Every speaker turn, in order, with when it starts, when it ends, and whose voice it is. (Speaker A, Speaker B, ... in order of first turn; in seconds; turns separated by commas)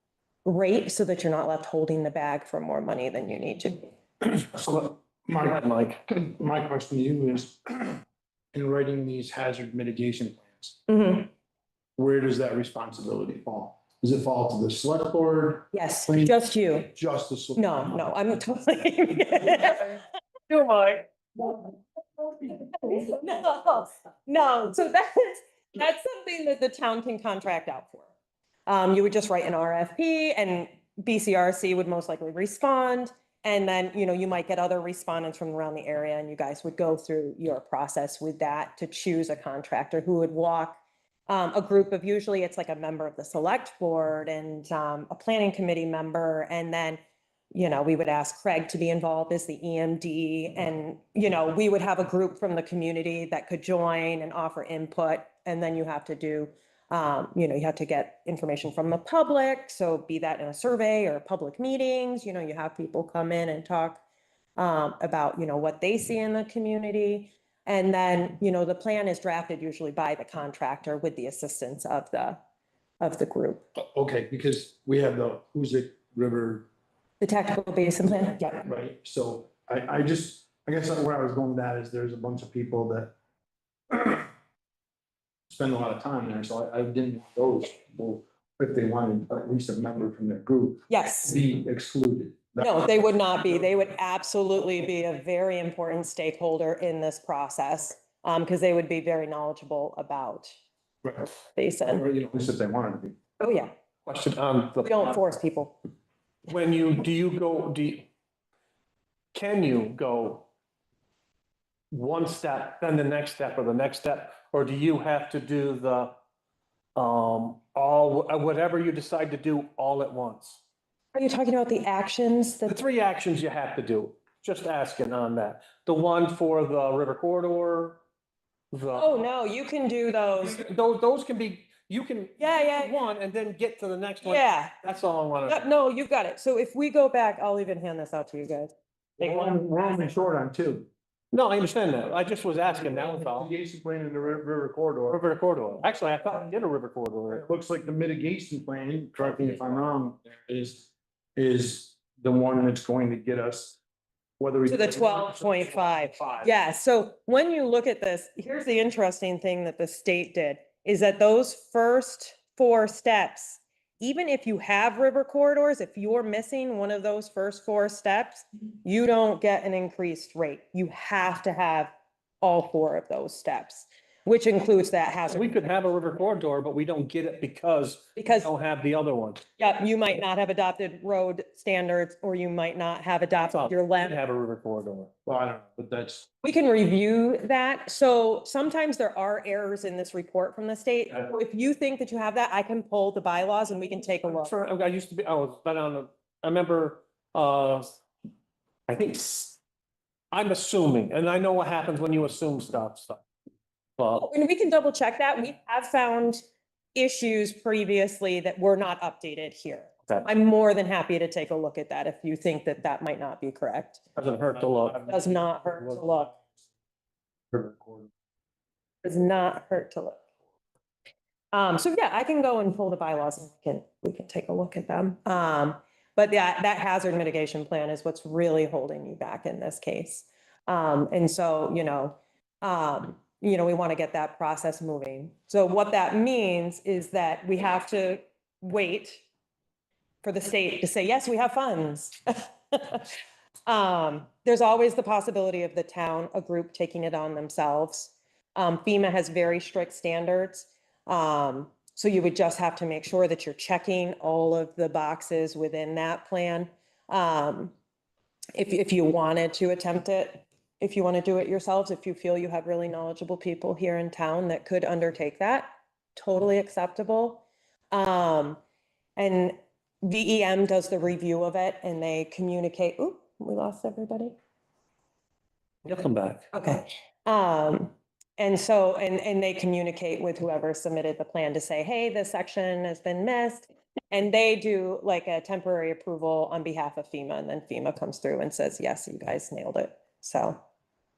Speaker A: 0.5-3.9, Speaker B: 4.4-8.0, Speaker C: 5.4-6.0, Speaker B: 8.5-10.8, Speaker A: 10.9-11.3, Speaker B: 12.0-16.4, Speaker A: 15.7-16.9, Speaker B: 16.9-18.1, Speaker A: 17.6-20.0, Speaker C: 20.5-21.6, Speaker A: 22.6-28.1, Speaker A: 28.7-47.0, Speaker A: 47.5-64.0, Speaker A: 64.6-72.4, Speaker A: 73.0-73.6, Speaker B: 73.8-76.7, Speaker A: 77.2-78.6, Speaker B: 78.6-83.1, Speaker B: 83.9-84.3, Speaker B: 85.5-93.1, Speaker A: 90.9-91.3, Speaker A: 92.6-100.5, Speaker B: 101.0-101.3, Speaker A: 101.5-102.0, Speaker B: 101.9-103.2, Speaker A: 103.4-103.7, Speaker C: 104.1-105.1, Speaker A: 104.8-105.8, Speaker C: 106.5-108.1, Speaker C: 109.3-110.5, Speaker C: 111.9-116.1, Speaker C: 117.0-120.6, Speaker A: 121.1-122.8, Speaker C: 122.7-128.0, Speaker C: 128.7-129.1, Speaker A: 129.0-130.6, Speaker C: 130.6-135.7, Speaker A: 132.4-132.9, Speaker A: 134.2-134.8, Speaker A: 135.5-140.2, Speaker B: 139.2-140.9, Speaker C: 141.3-143.5, Speaker B: 143.0-145.2, Speaker C: 145.1-147.4, Speaker B: 147.3-153.8, Speaker B: 154.4-156.5, Speaker A: 154.7-175.6, Speaker C: 175.3-179.4, Speaker A: 178.2-178.5, Speaker A: 179.6-184.2, Speaker C: 183.5-185.1, Speaker B: 185.2-186.3, Speaker A: 186.4-194.5, Speaker C: 194.3-197.9, Speaker C: 198.9-199.6, Speaker C: 200.3-203.2, Speaker C: 204.0-204.2, Speaker A: 204.1-206.4, Speaker A: 206.9-214.0, Speaker C: 214.2-215.2, Speaker A: 215.1-216.4, Speaker B: 217.5-218.1, Speaker A: 219.0-220.2, Speaker A: 221.5-239.2, Speaker A: 240.2-243.1, Speaker A: 243.7-257.7, Speaker A: 258.6-268.6, Speaker A: 269.2-274.4, Speaker C: 275.9-276.5, Speaker A: 276.5-290.6